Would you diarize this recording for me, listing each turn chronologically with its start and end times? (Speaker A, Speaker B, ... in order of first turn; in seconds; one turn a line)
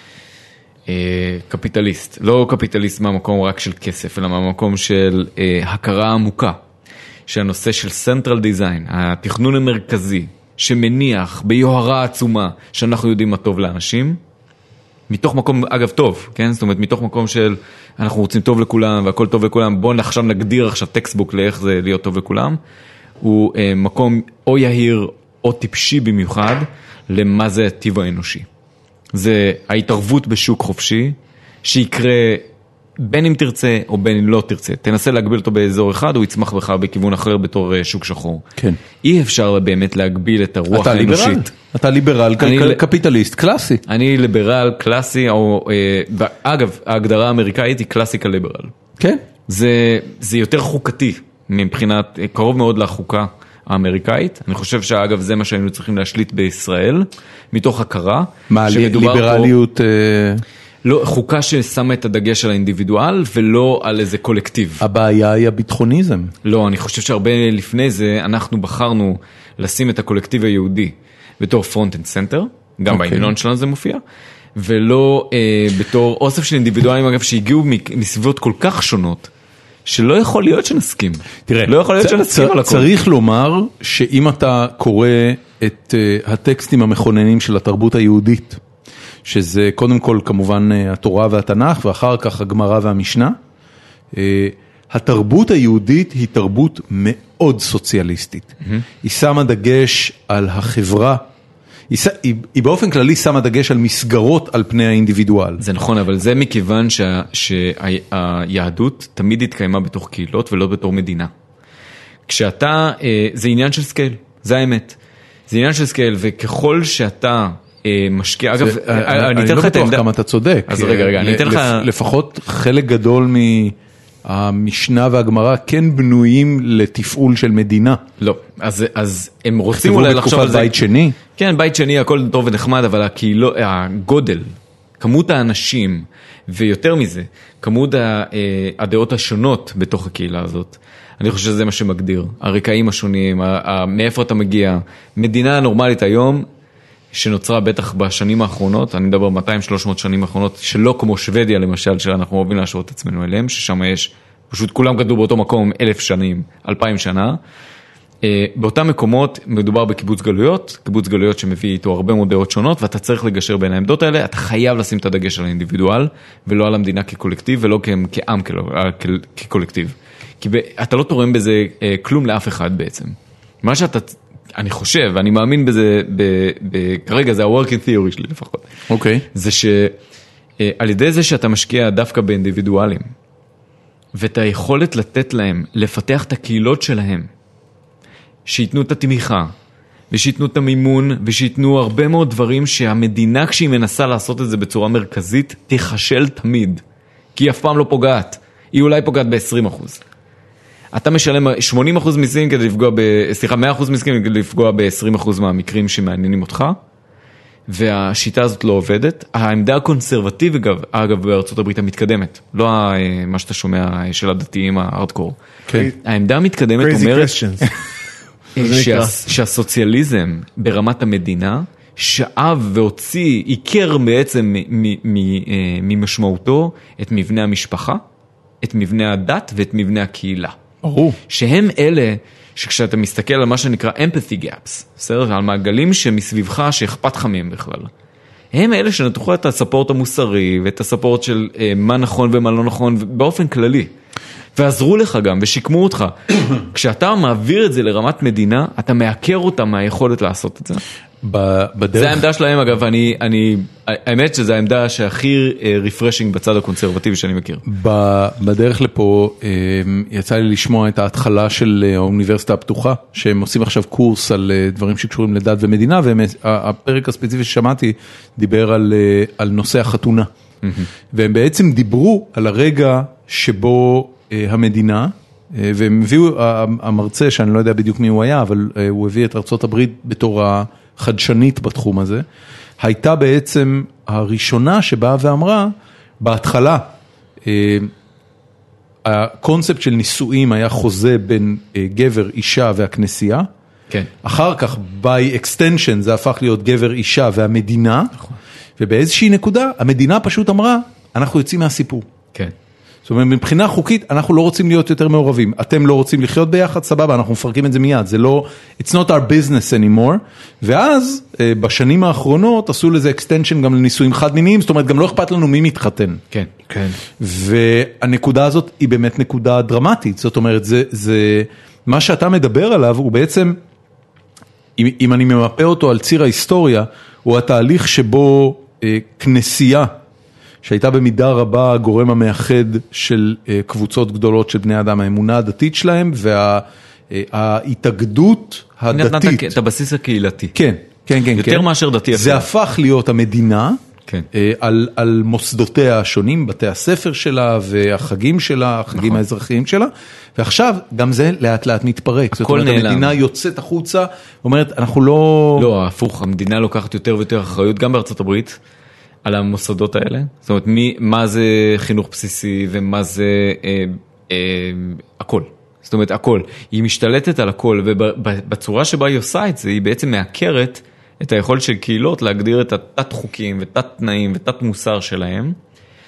Speaker A: 0.9-6.6
Speaker A: 7.3-14.2
Speaker A: 15.1-22.6
Speaker A: 23.2-28.5
Speaker A: 29.1-32.5
Speaker A: 33.0-38.5
Speaker A: 39.0-41.5
Speaker B: 40.7-43.8
Speaker A: 42.4-42.8
Speaker A: 43.9-48.7
Speaker A: 49.5-59.5
Speaker B: 58.5-60.4
Speaker A: 60.8-64.8
Speaker B: 64.8-66.3
Speaker A: 66.4-74.0
Speaker B: 72.9-73.3
Speaker A: 74.6-79.3
Speaker A: 79.8-82.9
Speaker B: 81.5-88.6
Speaker B: 89.2-93.4
Speaker B: 94.1-101.2
Speaker B: 101.9-105.6
Speaker A: 105.6-111.3
Speaker A: 112.3-115.0
Speaker A: 115.5-120.1
Speaker B: 118.6-128.0
Speaker A: 120.7-121.9
Speaker A: 128.2-130.8
Speaker B: 129.7-131.2
Speaker A: 131.3-146.5
Speaker A: 147.1-157.4
Speaker A: 158.2-178.7
Speaker B: 178.9-179.2
Speaker A: 179.3-180.0
Speaker A: 180.6-183.1
Speaker A: 184.2-187.3
Speaker A: 188.5-189.5
Speaker A: 190.1-196.8
Speaker A: 197.4-200.0
Speaker A: 200.9-206.8
Speaker A: 207.7-215.4
Speaker A: 215.9-217.4
Speaker C: 216.8-217.7
Speaker A: 218.6-228.0
Speaker C: 218.6-219.2
Speaker A: 228.6-230.6
Speaker B: 230.8-231.2
Speaker A: 231.3-237.9
Speaker A: 238.5-243.9
Speaker A: 244.6-250.8
Speaker B: 251.2-252.2
Speaker A: 251.9-257.6
Speaker B: 257.7-270.3
Speaker A: 270.6-270.9
Speaker B: 271.1-282.2
Speaker B: 282.8-286.9
Speaker B: 287.4-287.9
Speaker B: 289.0-293.5
Speaker B: 294.2-298.2
Speaker B: 298.8-302.1
Speaker B: 303.1-316.2
Speaker C: 316.7-317.0
Speaker B: 317.2-323.6
Speaker B: 324.8-329.9
Speaker B: 330.6-339.5
Speaker A: 338.9-340.6
Speaker B: 340.5-343.8
Speaker A: 341.4-342.5
Speaker B: 344.3-355.7
Speaker A: 348.9-349.2
Speaker A: 352.3-353.2
Speaker A: 355.6-358.6
Speaker A: 359.2-375.6